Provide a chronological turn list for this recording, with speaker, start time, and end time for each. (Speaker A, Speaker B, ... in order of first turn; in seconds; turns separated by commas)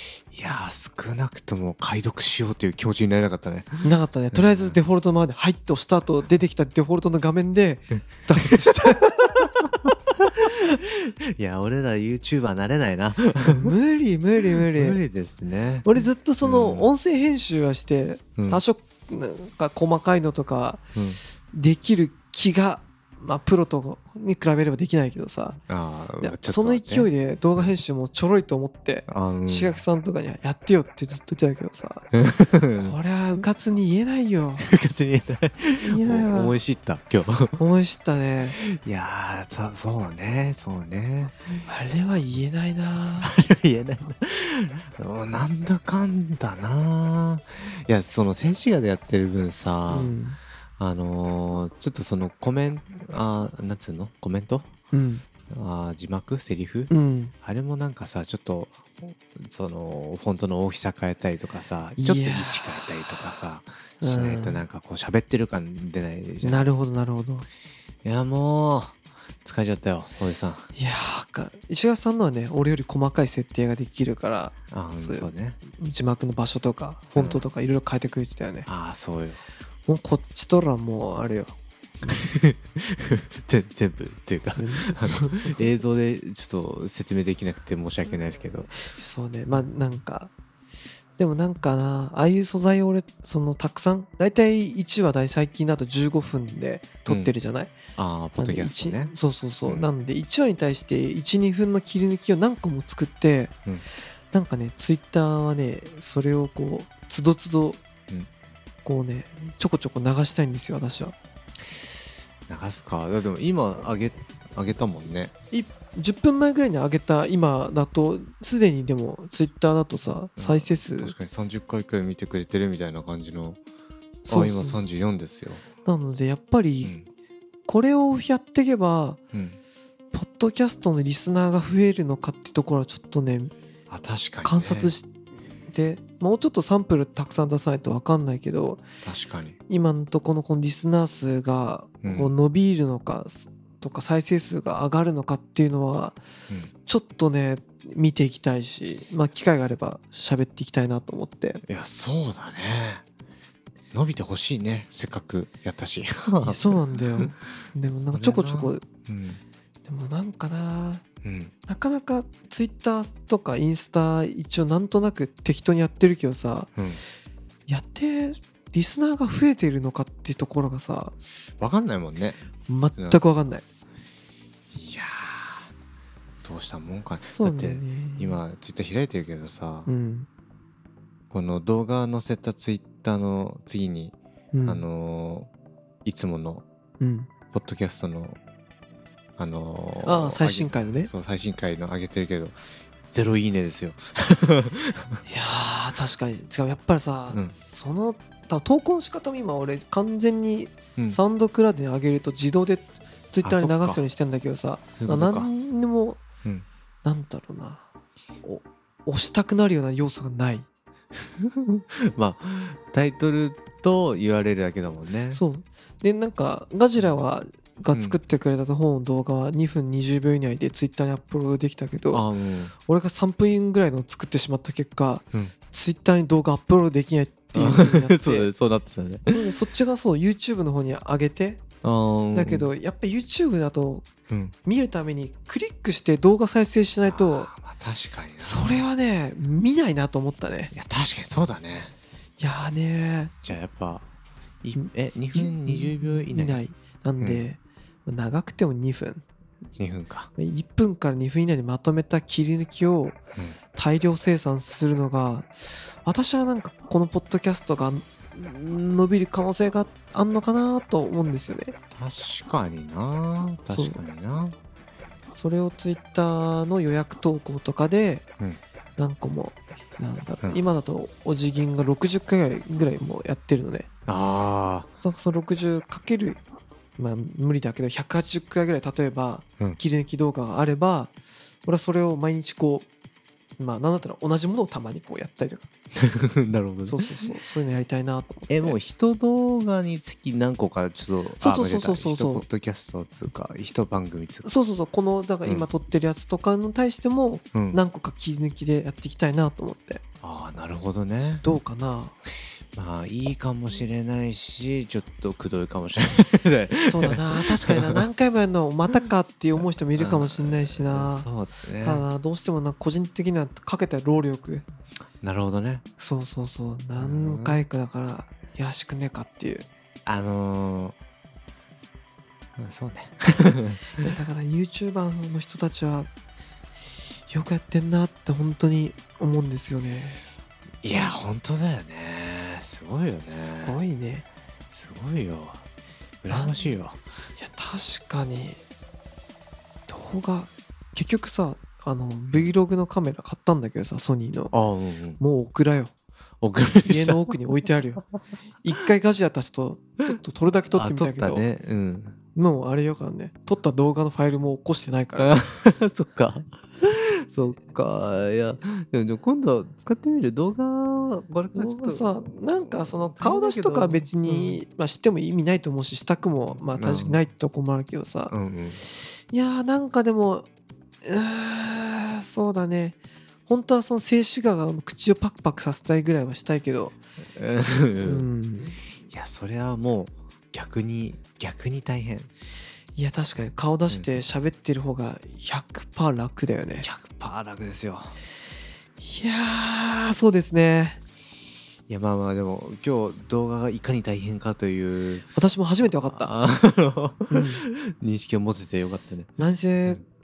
Speaker A: 0.2-4.8, Speaker B: 3.8-9.5, Speaker A: 10.7-13.7, Speaker B: 13.6-15.0, Speaker A: 14.6-15.9, Speaker B: 15.8-20.8, Speaker A: 16.4-16.9, Speaker A: 18.4-18.6, Speaker A: 20.9-21.2, Speaker B: 21.5-25.6, Speaker A: 25.7-27.7, Speaker B: 26.2-32.1, Speaker A: 29.1-29.8, Speaker A: 32.1-32.9, Speaker B: 32.8-34.6, Speaker A: 34.6-37.6, Speaker B: 35.8-36.6, Speaker B: 37.6-38.6, Speaker A: 38.6-41.3, Speaker B: 41.7-43.3, Speaker A: 43.2-50.2, Speaker B: 49.9-50.4, Speaker A: 50.8-54.7, Speaker B: 54.9-55.2, Speaker A: 55.5-56.9, Speaker B: 56.9-57.3, Speaker A: 57.4-66.7, Speaker B: 62.0-62.7, Speaker B: 64.0-64.6, Speaker B: 66.4-67.5, Speaker A: 68.0-70.7, Speaker B: 70.8-78.7, Speaker A: 74.7-75.6, Speaker A: 77.2-77.4, Speaker A: 78.7-79.4, Speaker B: 79.9-81.5, Speaker A: 82.0-88.8, Speaker B: 84.5-85.7, Speaker B: 89.0-90.3, Speaker B: 91.2-97.8, Speaker A: 97.1-97.3, Speaker A: 98.0-99.1, Speaker B: 98.4-103.5, Speaker B: 104.3-107.8, Speaker B: 108.8-111.2, Speaker A: 112.5-115.3, Speaker B: 115.5-121.2, Speaker A: 120.4-123.6, Speaker B: 124.3-124.8, Speaker A: 124.3-125.6, Speaker B: 125.8-127.0, Speaker B: 127.7-129.2, Speaker B: 130.1-133.5, Speaker A: 133.9-134.9, Speaker B: 134.4-135.1, Speaker B: 135.7-138.8, Speaker A: 139.0-139.6, Speaker B: 139.7-146.2, Speaker A: 142.0-142.3, Speaker B: 146.9-151.6, Speaker A: 151.7-153.0, Speaker A: 153.9-157.3, Speaker B: 156.4-158.8, Speaker A: 157.9-159.4, Speaker B: 159.9-161.0, Speaker A: 161.2-161.5, Speaker B: 161.7-166.7, Speaker A: 166.8-167.0, Speaker B: 167.7-171.1, Speaker A: 171.6-172.4, Speaker B: 172.7-173.6, Speaker A: 172.9-173.2, Speaker A: 174.7-175.7, Speaker A: 176.4-179.9, Speaker B: 177.3-178.4, Speaker B: 179.9-180.3, Speaker A: 181.3-185.5, Speaker B: 184.5-184.8, Speaker A: 186.1-186.7, Speaker B: 187.0-187.3, Speaker A: 187.5-188.4, Speaker A: 189.4-192.6, Speaker B: 190.1-191.1, Speaker A: 193.1-195.2, Speaker B: 195.3-206.2, Speaker A: 203.4-204.0, Speaker A: 205.0-205.5, Speaker B: 207.0-207.9, Speaker B: 208.4-210.7, Speaker A: 211.4-215.4, Speaker B: 215.3-222.2, Speaker A: 222.1-222.7, Speaker B: 222.9-228.5, Speaker A: 227.5-229.4, Speaker B: 229.3-231.6, Speaker A: 231.8-232.7, Speaker B: 232.3-234.1, Speaker A: 234.3-234.6, Speaker B: 234.7-237.5, Speaker A: 237.1-238.8, Speaker B: 238.4-240.7, Speaker A: 240.7-241.9, Speaker B: 242.4-243.3, Speaker A: 243.4-244.1, Speaker A: 244.6-246.6, Speaker B: 244.8-249.2, Speaker A: 249.8-250.3, Speaker B: 250.4-253.2, Speaker B: 253.8-255.5, Speaker B: 256.0-261.8, Speaker A: 261.9-264.6, Speaker B: 263.7-264.0, Speaker B: 265.3-268.2, Speaker B: 269.0-273.9, Speaker A: 274.1-274.9, Speaker B: 275.0-276.4, Speaker B: 277.0-281.1, Speaker B: 281.7-282.9, Speaker B: 283.6-285.7, Speaker A: 286.0-287.0, Speaker B: 286.9-288.8, Speaker A: 288.5-294.5, Speaker B: 291.4-292.5, Speaker B: 294.4-300.0, Speaker A: 297.5-297.8, Speaker A: 300.2-301.4, Speaker B: 301.4-302.1, Speaker A: 302.8-308.0, Speaker B: 306.9-311.3, Speaker A: 310.0-312.0, Speaker B: 311.8-314.6, Speaker A: 315.2-315.8, Speaker B: 316.0-319.7, Speaker A: 317.0-317.6, Speaker A: 320.1-321.0, Speaker A: 322.6-324.1, Speaker B: 324.0-326.1, Speaker B: 327.3-330.2, Speaker A: 330.8-333.8, Speaker B: 333.3-334.2, Speaker A: 334.7-335.6, Speaker A: 336.2-337.0, Speaker B: 336.3-336.8, Speaker B: 337.4-338.6, Speaker B: 339.9-344.5, Speaker A: 344.5-345.2, Speaker B: 345.2-345.9, Speaker A: 346.4-347.4, Speaker B: 346.9-348.0, Speaker B: 348.6-351.4, Speaker A: 350.7-352.2, Speaker B: 352.4-355.4, Speaker A: 355.2-364.6, Speaker B: 361.5-368.3, Speaker A: 366.7-367.2, Speaker A: 368.3-368.8, Speaker B: 369.3-370.5, Speaker B: 371.0-376.9, Speaker A: 377.4-378.3, Speaker B: 378.0-378.8, Speaker A: 379.1-382.3, Speaker B: 383.0-386.9, Speaker A: 386.8-388.2, Speaker B: 389.0-391.0, Speaker A: 391.9-395.3, Speaker B: 395.3-396.3, Speaker A: 395.8-399.3, Speaker B: 397.3-397.6, Speaker B: 399.4-400.1